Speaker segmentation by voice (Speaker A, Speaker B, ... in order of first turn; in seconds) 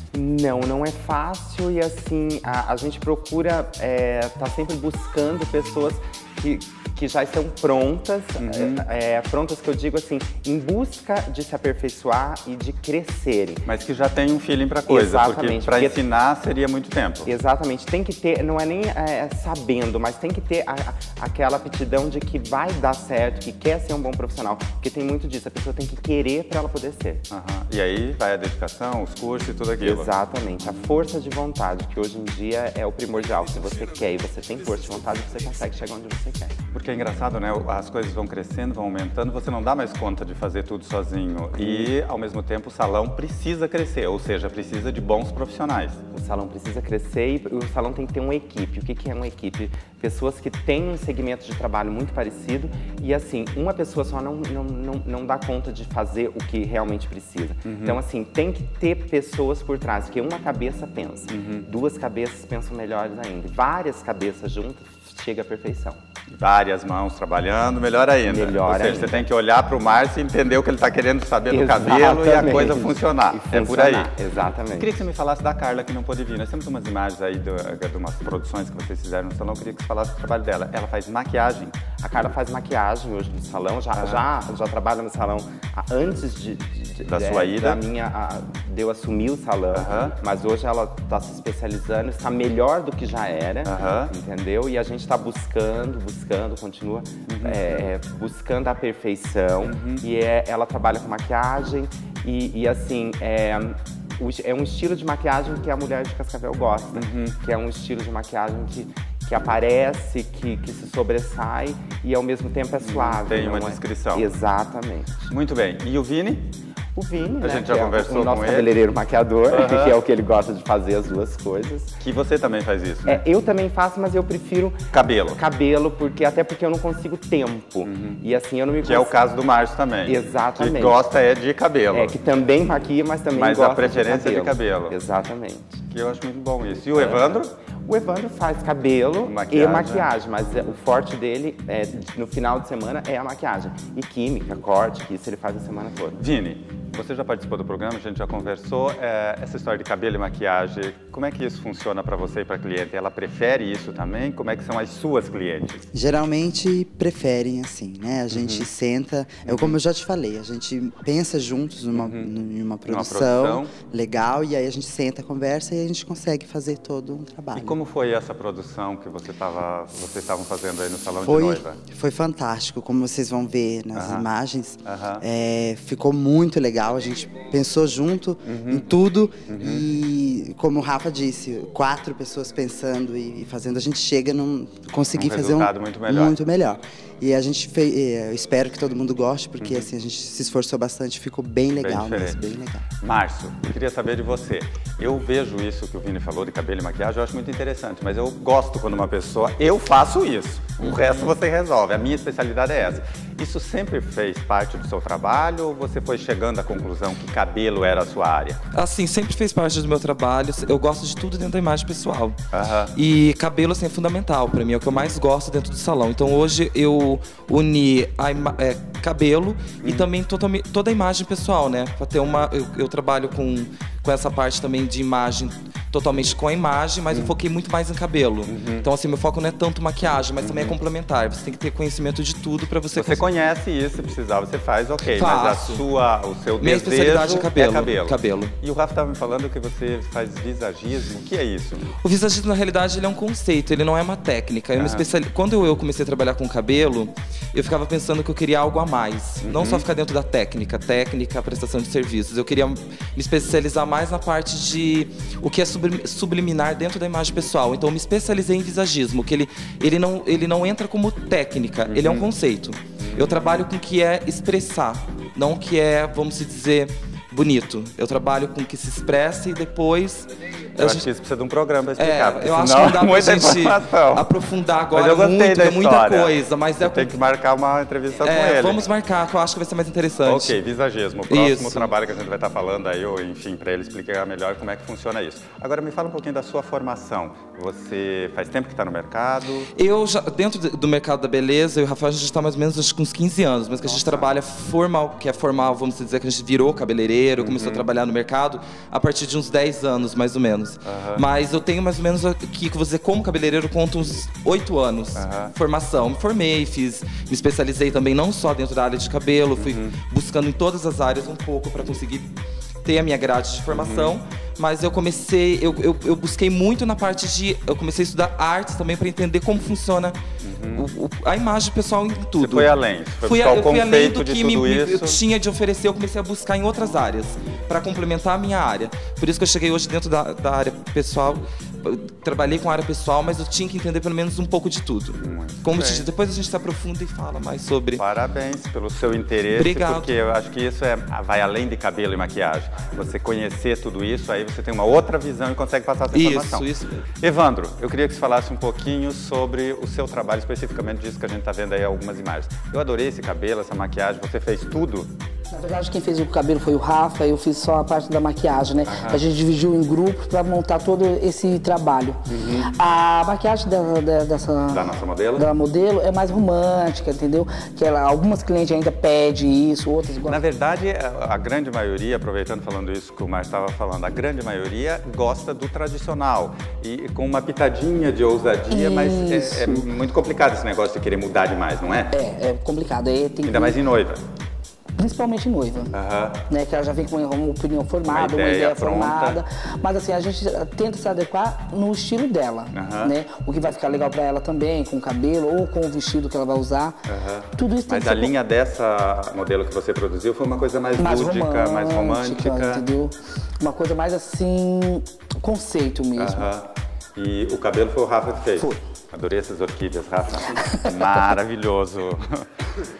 Speaker A: 0.1-13.7, 14.9-16.0, 17.2-27.2, 29.8-36.5, 41.6-41.9, 46.1-66.0, 68.2-69.3, 71.5-74.9, 82.0-115.3, 116.9-122.0, 123.0-124.8, 125.3-129.2, 130.0-131.1, 131.9-135.7, 136.9-137.3, 137.8-146.2
Speaker B: 8.4-8.8, 13.7-17.3, 27.3-30.1, 36.7-46.0, 57.6-58.0, 61.3-61.6, 66.3-74.1, 74.8-81.8, 84.0-84.2, 87.0-87.8, 89.7-90.1, 93.6-94.1, 97.2-97.9, 99.6-100.0, 106.9-107.3, 112.8-114.3, 115.3-116.5, 117.4-118.7, 119.5-120.0, 122.0-123.2, 124.9-125.4, 127.8-128.2, 128.8-132.2, 133.3-134.9, 135.9-137.5, 139.2-140.1, 146.2-155.8, 158.3-158.7, 159.4-159.8, 161.9-162.3, 162.9-163.7, 167.5-171.8, 173.9-174.3, 174.8-175.2, 178.4-178.9, 179.5-179.8, 185.1-186.3, 189.6-189.9, 191.8-192.4, 193.0-208.6, 212.5-212.9, 219.8-220.1, 228.5-228.9, 230.4-230.8, 232.9-241.9, 244.8-245.1, 249.4-249.9, 261.9-262.3, 263.0-263.4, 270.8-274.3, 274.9-278.9, 280.2-289.7, 297.4-297.9, 300.8-301.2, 305.1-305.5, 309.6-309.9, 313.7-314.1, 320.4-320.9, 322.4-325.2, 335.2-336.1, 338.0-346.7, 347.2-355.1, 358.9-359.2, 362.3-362.7, 364.7-365.5, 370.2-382.1, 383.4-384.2, 385.9-386.4, 388.1-389.4, 392.7-394.1, 397.1-402.9, 406.2-412.4
Speaker C: 155.9-167.8, 171.2-192.8
Speaker D: 200.8-201.3, 208.7-212.4, 212.9-233.2, 235.1-235.8, 236.6-238.5, 242.0-271.1, 272.0-277.2, 278.2-280.5, 281.3-281.9, 289.7-312.3, 312.8-320.1, 320.8-338.0, 339.5-340.1, 346.1-347.0
Speaker E: 355.5-364.8, 365.3-370.4, 378.7-379.9, 382.1-383.8, 385.0-385.9, 386.5-397.0, 397.5-398.3, 400.9-406.5